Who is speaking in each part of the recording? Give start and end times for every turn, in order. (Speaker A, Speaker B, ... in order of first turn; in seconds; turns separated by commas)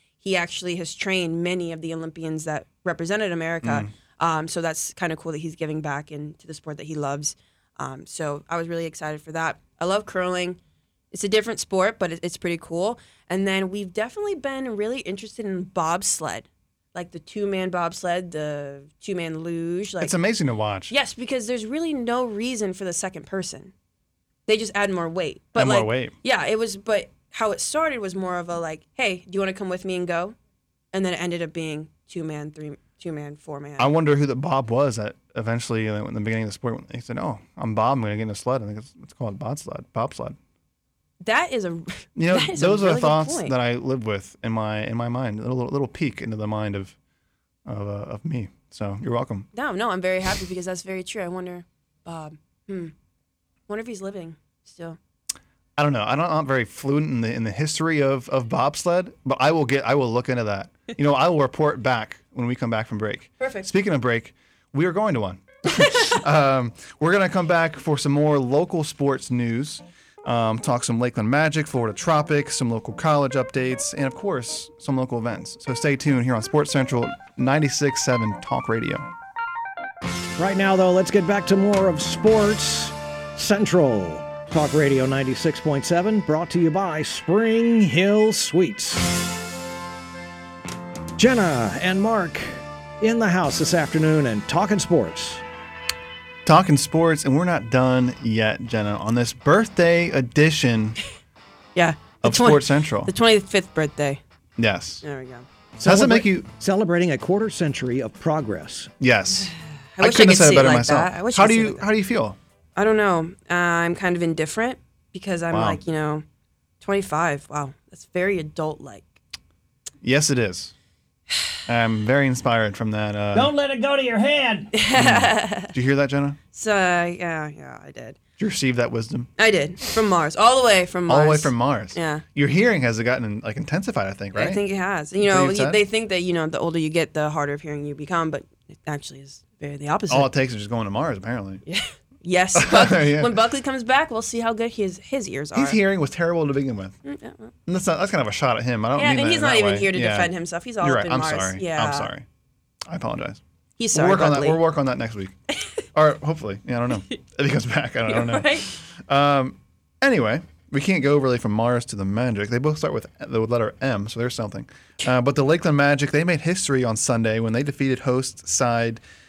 Speaker A: 0.2-10.6, Speaker B: 3.6-3.9, Speaker A: 11.1-20.1, Speaker B: 20.0-20.9, Speaker A: 20.9-23.7, Speaker A: 24.5-30.4, Speaker B: 25.6-26.1, Speaker A: 30.9-33.9, Speaker B: 33.8-40.4, Speaker A: 41.2-43.6, Speaker B: 42.2-47.0, Speaker B: 47.6-49.5, Speaker A: 49.5-52.9, Speaker A: 53.7-55.0, Speaker B: 55.8-79.1, Speaker A: 63.4-63.7, Speaker A: 65.7-66.2, Speaker C: 80.4-89.0, Speaker C: 91.2-95.4, Speaker B: 96.5-101.0, Speaker A: 101.8-104.2, Speaker B: 102.2-103.1, Speaker B: 104.6-105.0, Speaker A: 105.0-105.5, Speaker B: 105.8-106.5, Speaker C: 105.8-108.9, Speaker B: 109.0-112.4, Speaker A: 110.0-111.9, Speaker A: 112.8-116.2, Speaker B: 115.5-115.8, Speaker A: 116.8-119.2, Speaker B: 120.0-120.7, Speaker B: 121.7-123.5, Speaker C: 123.3-124.7, Speaker A: 124.7-125.7, Speaker B: 125.0-126.4, Speaker A: 126.5-128.2, Speaker B: 128.4-129.3, Speaker A: 129.4-132.2, Speaker B: 131.1-134.6, Speaker A: 134.3-140.3, Speaker B: 135.2-135.8, Speaker B: 140.1-141.6, Speaker A: 141.7-145.8, Speaker B: 142.6-143.3, Speaker B: 145.5-147.0, Speaker A: 147.1-147.5, Speaker B: 147.7-152.3, Speaker A: 148.9-152.1, Speaker B: 152.9-153.4, Speaker A: 153.8-154.6, Speaker B: 153.9-155.3, Speaker B: 155.9-169.0, Speaker A: 158.1-158.7